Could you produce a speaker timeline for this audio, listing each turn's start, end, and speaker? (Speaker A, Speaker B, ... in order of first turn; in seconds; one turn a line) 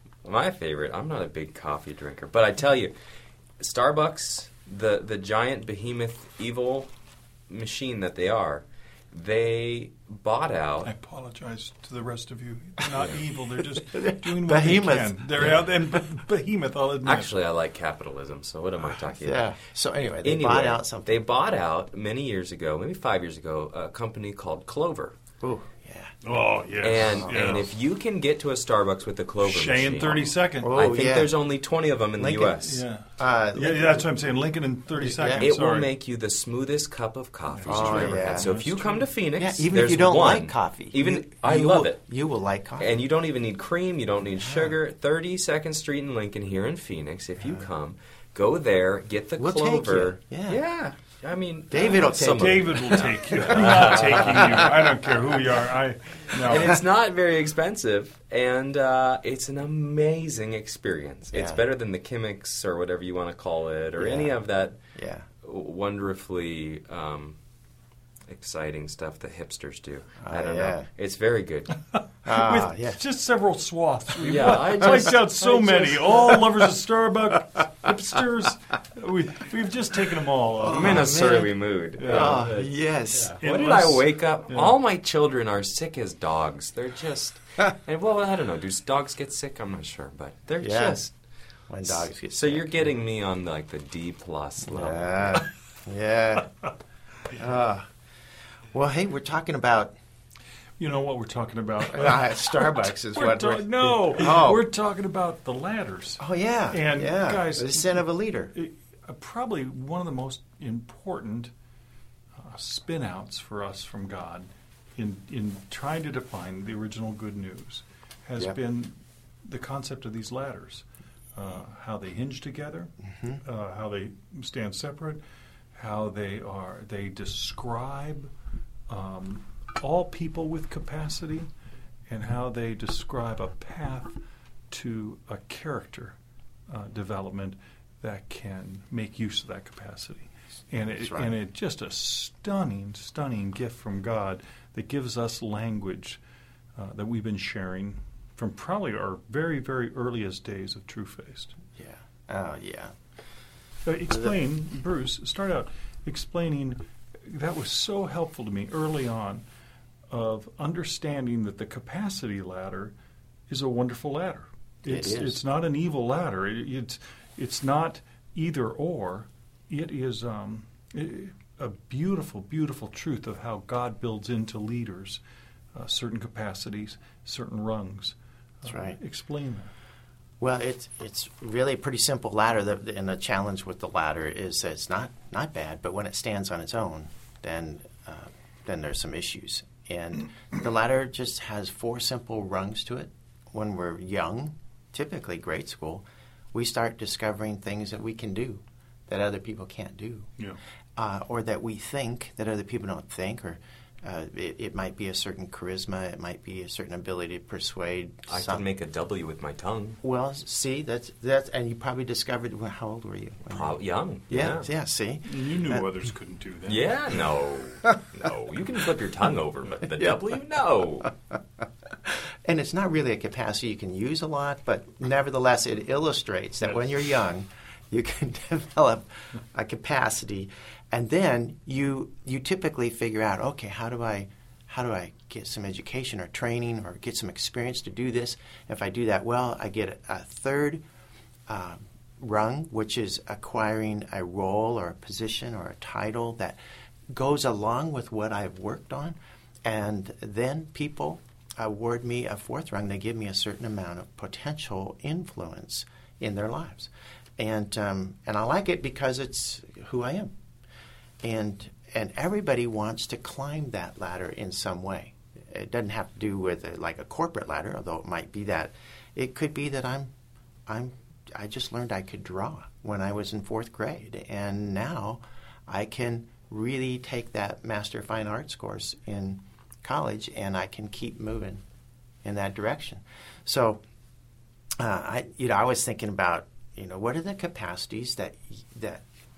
Speaker A: 0.2-2.9
Speaker A: 3.6-6.9
Speaker A: 7.5-10.9
Speaker B: 10.8-17.4
Speaker A: 12.9-13.2
Speaker C: 13.9-15.7
Speaker A: 17.0-25.1
Speaker C: 19.1-21.2
Speaker C: 25.4-26.1
Speaker B: 26.2-27.7
Speaker A: 26.8-32.8
Speaker C: 27.1-27.6
Speaker B: 29.4-30.8
Speaker C: 30.6-31.4
Speaker C: 32.2-32.5
Speaker B: 32.6-35.9
Speaker C: 33.2-34.2
Speaker C: 34.9-35.5
Speaker A: 35.4-42.0
Speaker B: 37.5-39.1
Speaker C: 37.7-38.5
Speaker C: 39.3-43.0
Speaker A: 42.8-54.8
Speaker C: 44.5-44.7
Speaker C: 47.4-47.7
Speaker C: 49.4-50.6
Speaker C: 51.7-54.6
Speaker B: 51.8-56.8
Speaker A: 56.4-64.8
Speaker C: 56.5-56.8
Speaker C: 61.3-61.6
Speaker C: 64.0-64.4
Speaker C: 64.9-65.3
Speaker A: 65.4-67.4
Speaker A: 68.3-71.8
Speaker C: 70.2-70.9
Speaker B: 71.9-81.4
Speaker C: 72.2-73.0
Speaker A: 74.2-76.4
Speaker C: 80.6-81.5
Speaker A: 80.7-91.1
Speaker B: 82.0-82.5
Speaker C: 82.0-83.4
Speaker B: 83.4-84.7
Speaker C: 90.6-91.0
Speaker C: 91.7-92.8
Speaker A: 91.8-95.4
Speaker C: 94.7-96.5
Speaker C: 97.3-97.9
Speaker C: 98.7-99.9
Speaker B: 100.8-111.5
Speaker C: 101.9-104.6
Speaker C: 106.2-108.5
Speaker B: 112.4-122.9
Speaker C: 123.0-123.4
Speaker B: 123.4-125.2
Speaker B: 125.7-128.3
Speaker B: 128.9-131.5
Speaker B: 132.1-134.2
Speaker B: 134.7-136.2
Speaker B: 136.7-146.2
Speaker C: 141.0-141.3
Speaker B: 146.8-151.5
Speaker C: 151.7-152.9
Speaker B: 153.8-159.4
Speaker B: 160.1-162.9
Speaker B: 163.5-175.2
Speaker C: 164.8-165.4
Speaker B: 175.7-179.7
Speaker C: 178.7-179.0
Speaker C: 180.4-200.3
Speaker C: 201.0-208.7
Speaker A: 208.3-210.0
Speaker C: 210.0-215.9
Speaker A: 213.5-214.7
Speaker B: 215.2-216.9
Speaker A: 216.7-221.1
Speaker C: 222.1-240.8
Speaker C: 241.5-246.6
Speaker C: 247.1-260.3
Speaker C: 261.2-270.1
Speaker C: 270.7-281.6
Speaker C: 282.2-283.8
Speaker C: 284.8-289.0